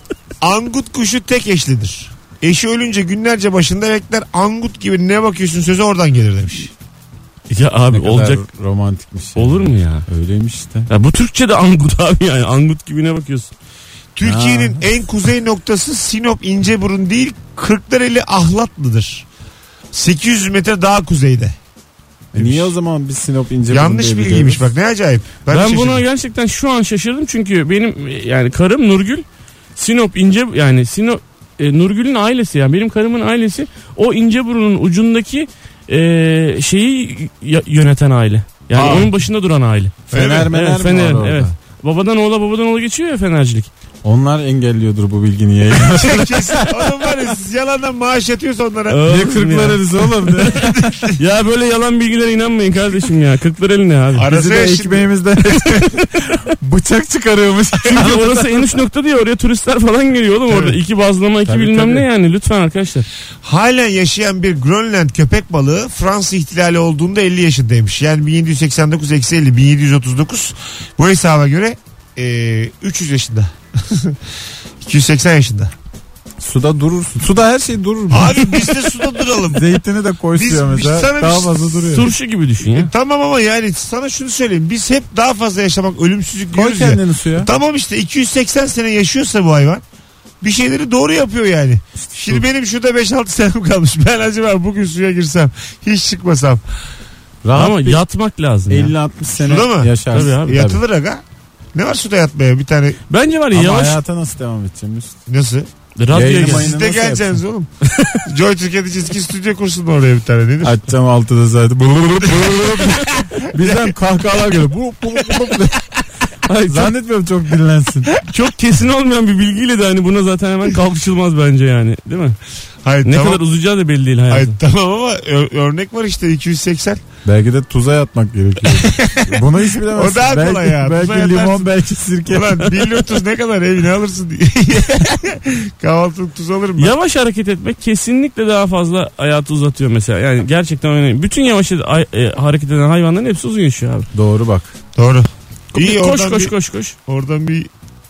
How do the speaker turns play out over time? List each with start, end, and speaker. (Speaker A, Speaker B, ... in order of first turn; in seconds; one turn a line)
Speaker A: 0.4-6.7
Speaker B: 7.5-8.4
Speaker C: 7.9-10.9
Speaker B: 9.3-10.0
Speaker B: 10.9-13.5
Speaker A: 14.1-19.2
Speaker C: 14.2-14.8
Speaker A: 19.9-21.5
Speaker C: 22.3-24.7
Speaker A: 22.3-22.7
Speaker A: 23.7-26.0
Speaker B: 25.5-29.2
Speaker B: 29.8-43.7
Speaker A: 38.7-39.1
Speaker A: 40.1-40.5
Speaker C: 40.1-41.5
Speaker C: 44.0-47.1
Speaker A: 45.9-49.0
Speaker B: 48.9-50.5
Speaker C: 49.0-50.7
Speaker A: 50.5-51.2
Speaker B: 51.2-54.3
Speaker A: 54.1-55.1
Speaker C: 54.3-58.8
Speaker B: 55.7-56.2
Speaker B: 57.8-63.1
Speaker C: 61.4-62.1
Speaker A: 63.4-74.2
Speaker A: 74.8-75.7
Speaker C: 76.4-78.8
Speaker A: 78.1-79.7
Speaker C: 79.5-82.1
Speaker A: 80.3-82.1
Speaker B: 81.9-82.9
Speaker A: 82.7-89.8
Speaker C: 86.5-87.5
Speaker A: 90.4-96.6
Speaker C: 92.0-92.4
Speaker C: 97.4-98.0
Speaker B: 97.5-98.9
Speaker C: 98.7-100.8
Speaker A: 99.4-101.2
Speaker B: 100.1-100.5
Speaker A: 101.7-103.0
Speaker B: 103.1-104.0
Speaker C: 103.5-105.1
Speaker A: 105.3-105.7
Speaker B: 106.0-106.7
Speaker C: 106.1-107.4
Speaker A: 106.3-107.7
Speaker A: 108.2-110.8
Speaker C: 110.6-115.8
Speaker A: 112.3-113.9
Speaker B: 116.5-116.9
Speaker C: 116.7-118.1
Speaker B: 118.3-122.4
Speaker A: 122.8-123.4
Speaker B: 123.0-124.6
Speaker A: 124.3-127.0
Speaker C: 127.2-132.9
Speaker A: 128.7-131.7
Speaker A: 132.3-136.9
Speaker B: 136.8-144.1
Speaker C: 144.1-144.7
Speaker A: 144.9-146.5
Speaker B: 145.7-146.9
Speaker A: 147.1-147.7